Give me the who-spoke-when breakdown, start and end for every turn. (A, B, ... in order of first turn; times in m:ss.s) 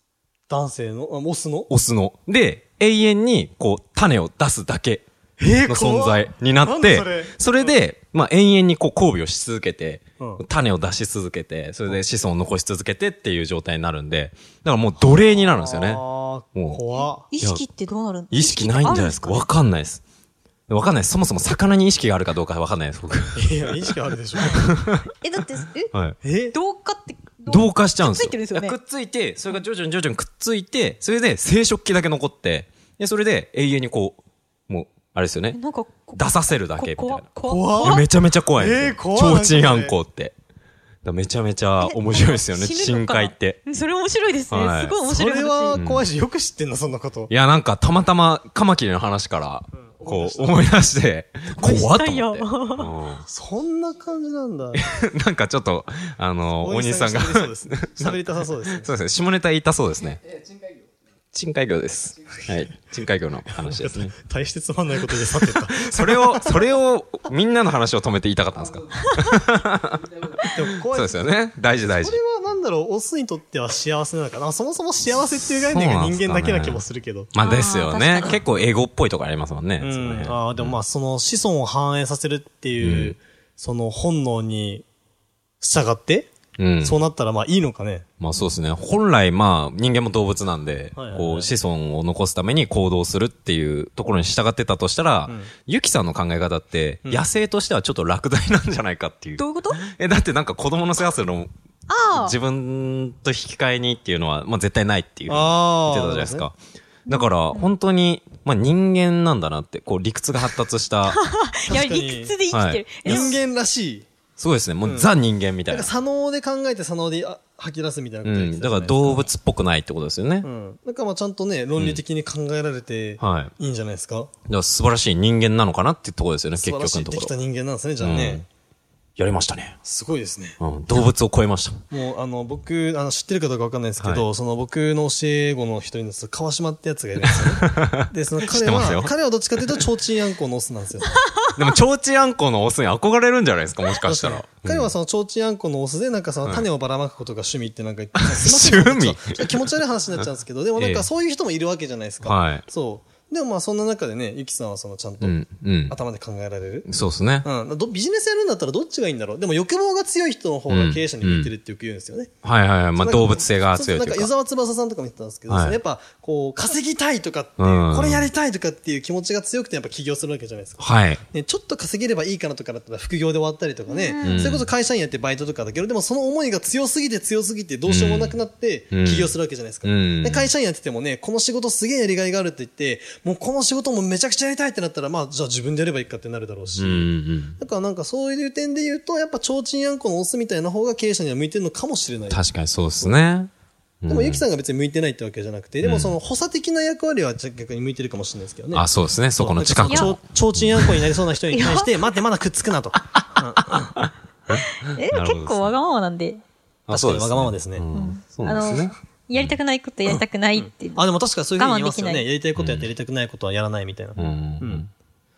0:00.5-0:01.7 A
0:01.7-0:05.0 B
0:05.4-0:07.8 A
0:05.6-0:16.0 B
0:15.0-0:17.3 A
0:16.5-0:16.8 B
0:17.0-0:19.5 C
0:18.3-0:20.0 B
0:20.7-0:23.9 B
0:23.4-0:24.7 A
0:24.4-0:25.0 B
0:25.2-0:25.9 C
0:26.2-0:26.6 A
0:26.5-0:28.8 C
0:27.4-0:35.6 B
0:35.5-0:38.0 C
0:36.2-0:40.4 B
0:37.4-0:38.0 A
0:38.6-0:39.9 A
0:41.0-0:43.6 B
0:41.8-0:45.8 C
0:44.5-0:45.0 B
0:45.0-0:47.3 A
0:45.7-0:46.0 B
0:47.3-0:53.2 B
0:49.8-0:50.8 A
0:51.6-0:52.9 C
0:53.2-0:54.8 A
0:54.7-1:00.2 B
0:56.6-0:58.9 A
1:01.3-1:04.1 B
1:03.6-1:06.7 A
1:05.1-1:10.2 B
1:10.5-1:11.2 A
1:10.9-1:12.2 B
1:11.8-1:17.3 A
1:15.4-1:20.8 B
1:17.4-1:18.4 C
1:19.8-1:24.8 A
1:22.8-1:23.2 B
1:25.6-1:28.1 A
1:26.6-1:27.0 B
1:28.2-1:41.5 B
1:30.9-1:31.5 A
1:35.2-1:35.5 A
1:39.4-1:39.8 C
1:41.9-1:42.4 C
1:42.1-1:46.6 B
1:45.3-1:46.5 A
1:47.1-1:47.7 C
1:47.1-1:51.2 B
1:51.0-1:53.4 C
1:51.6-1:52.4 A
1:52.5-1:53.3 B
1:53.0-1:54.1 A
1:54.4-1:55.9 B
1:54.8-1:55.1 A
1:55.7-1:59.3 A
1:58.2-2:00.5 B
2:00.4-2:04.3 A
2:01.8-2:02.0 B
2:03.2-2:03.5 B
2:04.5-2:07.3 B
2:06.6-2:08.4 A
2:08.0-2:08.4 B
2:09.2-2:09.8 B
2:09.8-2:10.6 A
2:10.6-2:11.8 B
2:11.9-2:21.3 A
2:14.0-2:14.2 B
2:17.2-2:19.8 B
2:21.5-2:24.9 B
2:24.0-2:35.3 A
2:28.2-2:29.6 B
2:30.8-2:31.1 B
2:32.2-2:32.6 B
2:35.2-2:36.0 B
2:35.9-2:36.9 A
2:36.8-2:37.4 B
2:37.4-2:42.3 A
2:40.7-2:41.5 B
2:42.4-2:44.3 B
2:43.0-3:12.4 A
2:45.5-2:45.8 B
2:47.6-2:48.3 B
2:50.8-2:51.2 B
2:53.9-2:54.5 C
2:54.2-2:54.7 B
2:57.9-2:58.4 B
2:58.9-2:59.3 B
2:59.8-3:00.5 B
3:06.8-3:07.6 B
3:12.3-3:13.5 B
3:14.0-3:14.4 B
3:14.1-3:18.8 A
3:15.8-3:16.2 B
3:18.7-3:21.0 B
3:19.4-3:23.9 A
3:19.9-3:20.1 C
3:21.5-3:21.9 C
3:23.2-3:25.7 B
3:24.5-3:26.4 C
3:26.9-3:29.6 B
3:26.9-3:27.8 A
3:27.9-3:32.3 C
3:30.5-3:34.9 A
3:32.6-3:32.9 B
3:34.2-3:34.9 B